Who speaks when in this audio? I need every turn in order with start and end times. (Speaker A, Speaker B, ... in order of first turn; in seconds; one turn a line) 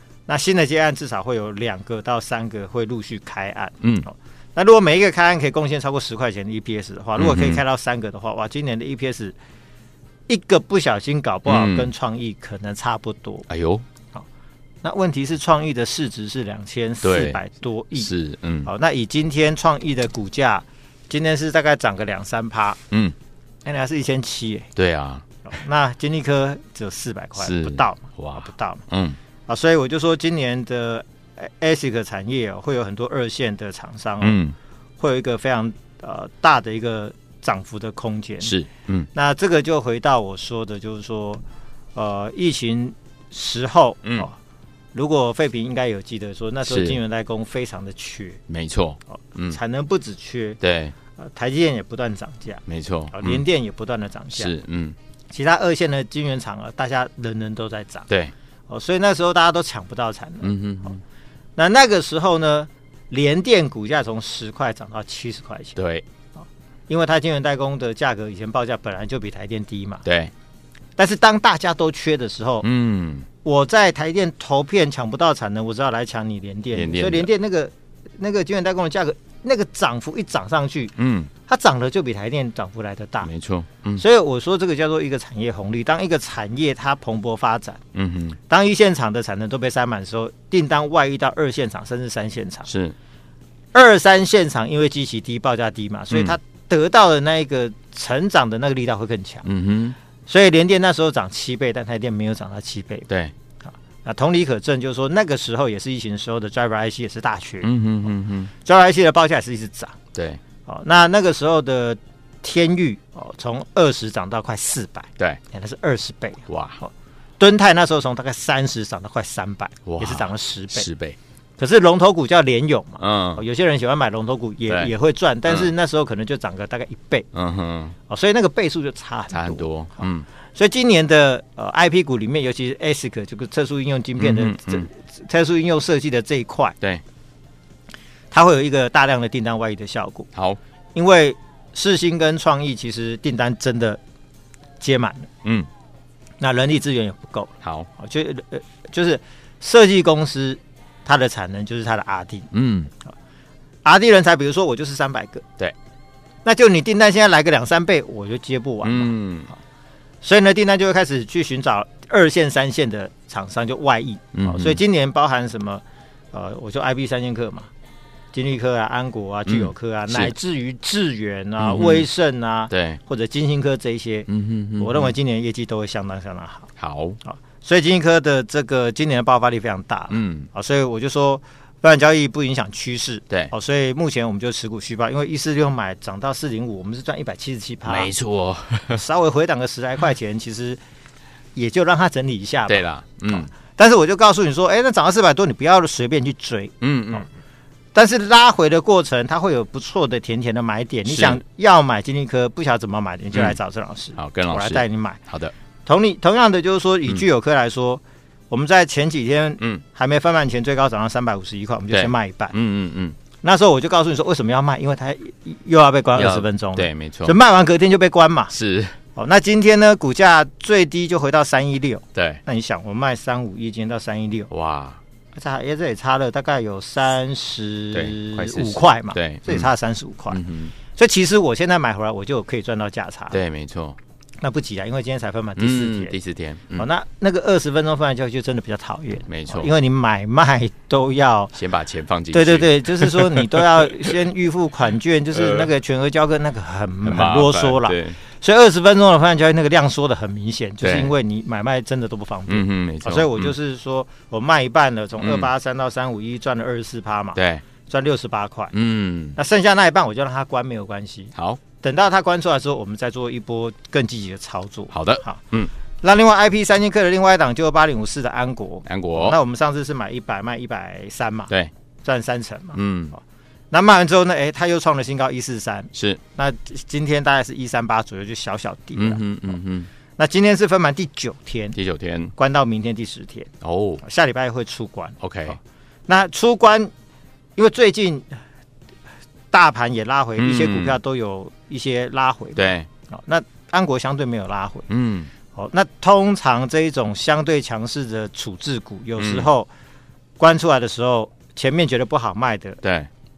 Speaker A: 0.3-9.3
Speaker B: 3.8-4.0
Speaker B: 7.2-7.6
Speaker A: 10.3-13.4
Speaker B: 11.4-11.9
Speaker B: 13.5-13.8
Speaker A: 14.8-18.1
Speaker B: 17.0-17.4
Speaker B: 17.9-18.7
Speaker A: 18.6-22.8
Speaker A: 23.6-24.7
Speaker B: 24.8-25.2
Speaker A: 25.4-28.8
Speaker B: 27.4-29.2
Speaker A: 29.5-34.4
Speaker B: 34.2-34.5
Speaker A: 35.0-38.5
Speaker B: 38.4-39.1
Speaker A: 39.1-41.4
Speaker A: 41.9-44.4
Speaker A: 44.9-48.4
Speaker B: 46.6-47.0
Speaker B: 48.5-49.6
Speaker A: 49.1-50.6
Speaker B: 50.6-50.9
Speaker A: 51.2-54.5
Speaker B: 52.7-53.4
Speaker B: 54.3-55.0
Speaker A: 55.3-58.1
Speaker A: 58.7-60.5
Speaker B: 60.4-61.0
Speaker A: 61.5-65.8
Speaker B: 65.8-66.0
Speaker A: 66.4-70.0
Speaker B: 70.0-70.3
Speaker A: 71.0-72.7
Speaker B: 72.6-73.3
Speaker A: 73.4-80.9
Speaker B: 76.7-77.3
Speaker B: 81.0-81.3
Speaker A: 81.5-83.3
Speaker B: 83.2-84.0
Speaker A: 84.0-87.8
Speaker B: 87.9-88.4
Speaker A: 88.5-92.7
Speaker B: 92.7-92.9
Speaker A: 93.7-99.4
Speaker B: 96.1-96.4
Speaker B: 99.4-100.0
Speaker A: 100.3-103.1
Speaker A: 104.0-107.7
Speaker B: 107.6-108.5
Speaker A: 108.6-110.0
Speaker B: 110.1-110.4
Speaker A: 110.7-120.9
Speaker B: 116.5-116.8
Speaker B: 119.8-121.2
Speaker A: 121.6-127.3
Speaker B: 123.0-123.4
Speaker B: 125.5-125.7
Speaker B: 127.3-127.9
Speaker A: 128.1-130.0
Speaker B: 129.3-130.2
Speaker A: 130.5-136.8
Speaker B: 134.2-134.9
Speaker A: 138.3-140.3
Speaker A: 140.9-144.0
Speaker A: 144.8-145.3
Speaker A: 146.4-152.5
Speaker B: 152.5-152.9
Speaker A: 153.8-155.4
Speaker A: 156.4-159.1
Speaker B: 158.8-159.5
Speaker A: 160.2-167.7
Speaker B: 164.3-164.8
Speaker A: 168.3-176.7
Speaker B: 169.5-170.3
Speaker B: 171.6-172.1
Speaker B: 172.7-173.0
Speaker B: 174.3-175.1
Speaker B: 176.8-177.2
Speaker A: 177.2-188.1
Speaker B: 180.1-180.5
Speaker B: 187.8-189.0
Speaker A: 188.9-190.8
Speaker A: 191.5-197.2
Speaker B: 192.7-193.5
Speaker B: 196.8-197.3
Speaker A: 197.9-205.2
Speaker B: 201.0-201.4
Speaker B: 204.2-205.5
Speaker A: 205.8-212.5
Speaker B: 211.9-213.2
Speaker A: 213.4-218.5
Speaker B: 216.1-217.3
Speaker B: 218.5-218.9
Speaker A: 219.1-224.5
Speaker B: 222.1-222.4
Speaker B: 224.5-225.0
Speaker A: 225.3-230.4
Speaker B: 227.9-229.7
Speaker B: 230.3-230.7
Speaker A: 230.9-233.4
Speaker B: 233.3-234.0
Speaker A: 234.4-236.1
Speaker B: 235.6-236.8
Speaker A: 236.7-241.5
Speaker B: 239.3-239.7
Speaker B: 241.5-244.1
Speaker A: 242.3-258.7
Speaker B: 245.3-245.7
Speaker B: 247.0-248.2
Speaker B: 250.8-251.1
Speaker B: 252.5-253.5
Speaker B: 255.2-255.5
Speaker B: 257.4-257.6
Speaker B: 258.7-259.4
Speaker A: 259.3-265.4
Speaker B: 264.9-265.7
Speaker A: 266.0-272.8
Speaker B: 268.9-269.4
Speaker B: 272.7-273.1
Speaker A: 273.7-279.5
Speaker B: 275.9-276.2
Speaker B: 278.9-279.9
Speaker A: 280.2-281.8
Speaker B: 281.7-282.3
Speaker A: 282.4-286.9
Speaker B: 283.6-284.0
Speaker B: 285.2-285.6
Speaker A: 287.6-288.4
Speaker A: 289.5-294.9
Speaker B: 290.4-291.0
Speaker B: 292.6-292.9
Speaker B: 294.9-295.3
Speaker A: 295.5-299.7
Speaker B: 299.2-299.5
Speaker A: 300.4-302.8
Speaker B: 302.8-303.1